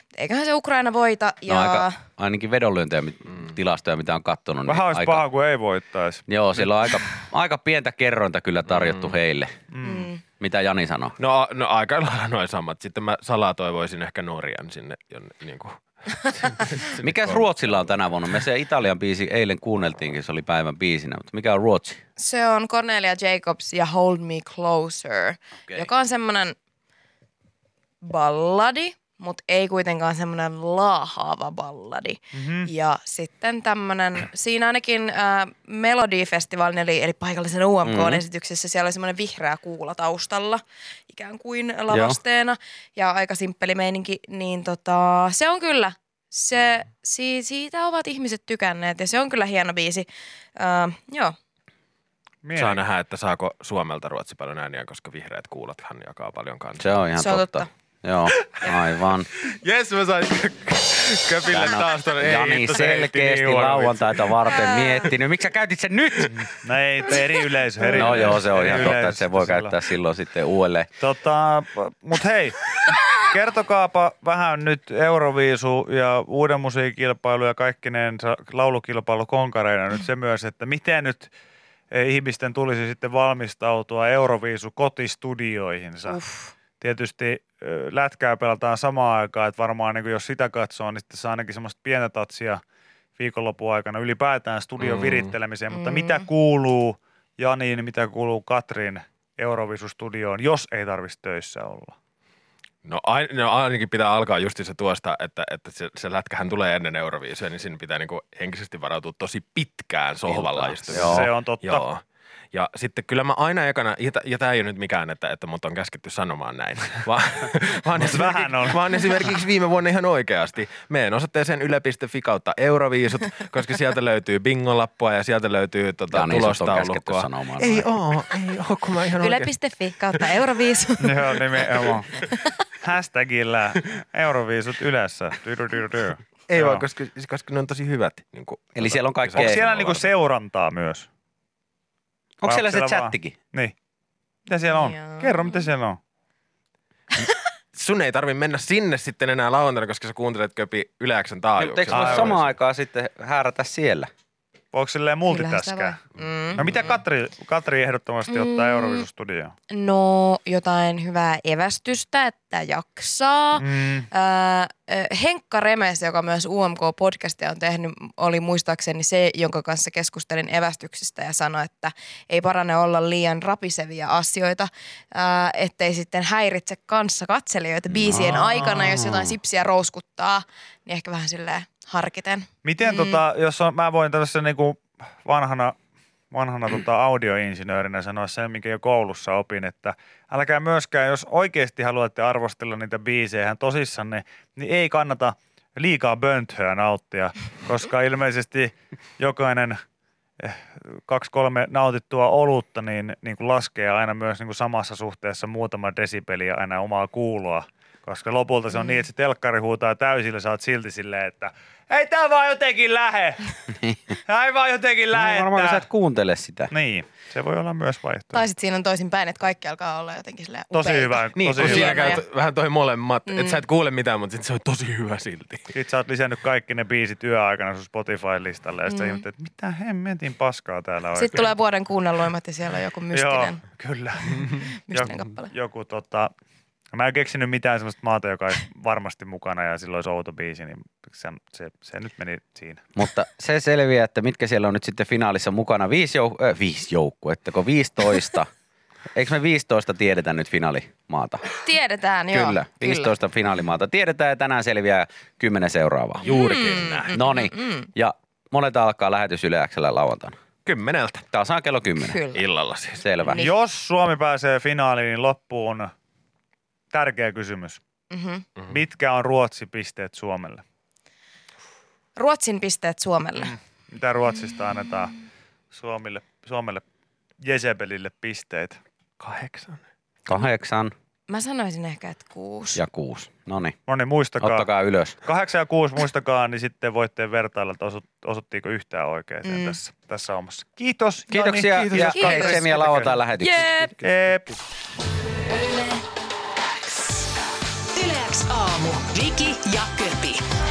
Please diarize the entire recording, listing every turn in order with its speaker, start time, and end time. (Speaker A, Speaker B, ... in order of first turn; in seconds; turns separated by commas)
Speaker A: 0.1-2.0, Speaker B: 1.5-5.2, Speaker C: 4.7-6.7, Speaker B: 6.3-9.5, Speaker D: 8.7-9.2, Speaker C: 9.7-10.1, Speaker A: 9.8-10.2, Speaker B: 10.4-11.2, Speaker D: 11.2-18.4, Speaker B: 17.0-22.0, Speaker A: 22.2-26.6, Speaker A: 28.0-51.3, Speaker C: 32.3-32.7, Speaker B: 37.8-38.2, Speaker B: 41.9-42.2, Speaker C: 52.4-52.8, Speaker D: 52.6-56.9, Speaker B: 56.8-59.3, Speaker A: 57.2-57.7, Speaker D: 59.5-64.2, Speaker B: 61.5-66.5, Speaker A: 64.5-65.1, Speaker C: 66.5-69.8, Speaker B: 67.9-70.9, Speaker C: 71.0-72.6, Speaker C: 73.2-81.3, Speaker C: 81.9-86.2, Speaker A: 86.1-86.5, Speaker C: 86.8-92.6, Speaker C: 93.2-101.9, Speaker D: 94.8-95.3, Speaker A: 95.7-96.3, Speaker D: 102.8-112.0, Speaker B: 110.3-111.3, Speaker C: 110.9-111.9, Speaker D: 112.5-129.5, Speaker C: 118.0-118.8, Speaker B: 126.1-127.9, Speaker A: 129.2-131.3, Speaker C: 131.0-132.1, Speaker A: 132.1-132.5, Speaker C: 132.8-136.9, Speaker D: 136.5-140.1, Speaker B: 138.8-139.7, Speaker C: 139.3-141.1, Speaker B: 142.4-143.4, Speaker C: 142.4-143.7, Speaker C: 144.5-146.0, Speaker A: 144.7-145.7, Speaker D: 147.7-152.5, Speaker B: 151.6-154.1, Speaker C: 151.9-152.4, Speaker C: 154.7-156.0, Speaker A: 155.3-156.7, Speaker D: 156.6-157.0, Speaker C: 156.6-159.5, Speaker A: 158.3-159.1, Speaker A: 159.7-183.2, Speaker C: 163.6-164.1, Speaker C: 178.4-179.0, Speaker C: 182.6-185.8, Speaker C: 186.3-199.8, Speaker C: 200.4-213.5, Speaker A: 208.7-209.0, Speaker C: 214.1-215.8, Speaker B: 215.1-216.7, Speaker C: 216.7-218.4, Speaker A: 218.3-222.2, Speaker C: 220.7-222.2, Speaker D: 221.4-225.7, Speaker A: 223.3-223.6, Speaker C: 225.7-231.5, Speaker A: 228.9-229.2, Speaker A: 231.1-233.6, Speaker C: 233.1-236.3, Speaker A: 234.4-235.5, Speaker C: 236.9-242.8, Speaker B: 243.0-248.5, Speaker B: 249.1-251.4, Speaker A: 251.6-253.1, Speaker B: 252.3-256.3, Speaker D: 256.2-257.2, Speaker A: 256.3-257.9, Speaker B: 257.1-260.4, Speaker D: 260.6-261.3, Speaker B: 261.3-262.2, Speaker A: 262.0-262.4, Speaker D: 262.3-263.4, Speaker B: 263.0-263.5, Speaker A: 263.2-263.5, Speaker C: 263.4-265.9, Speaker C: 266.9-267.8, Speaker A: 268.1-268.4, Speaker C: 268.7-270.6, Speaker A: 272.2-273.5, Speaker C: 273.4-275.1, Speaker C: 275.7-276.8, Speaker C: 277.4-278.8, Speaker D: 279.2-279.8, Speaker B: 280.3-280.9, Speaker A: 281.3-282.8, Speaker B: 282.8-283.8, Speaker C: 283.9-284.7, Speaker B: 284.4-285.2, Speaker C: 285.2-293.1, Speaker A: 289.4-289.8, Speaker B: 291.3-293.8, Speaker D: 291.8-292.2, Speaker A: 292.0-292.6, Speaker A: 293.4-294.0, Speaker C: 294.0-294.6, Speaker E: 295.5-296.0, Speaker E: 297.9-300.4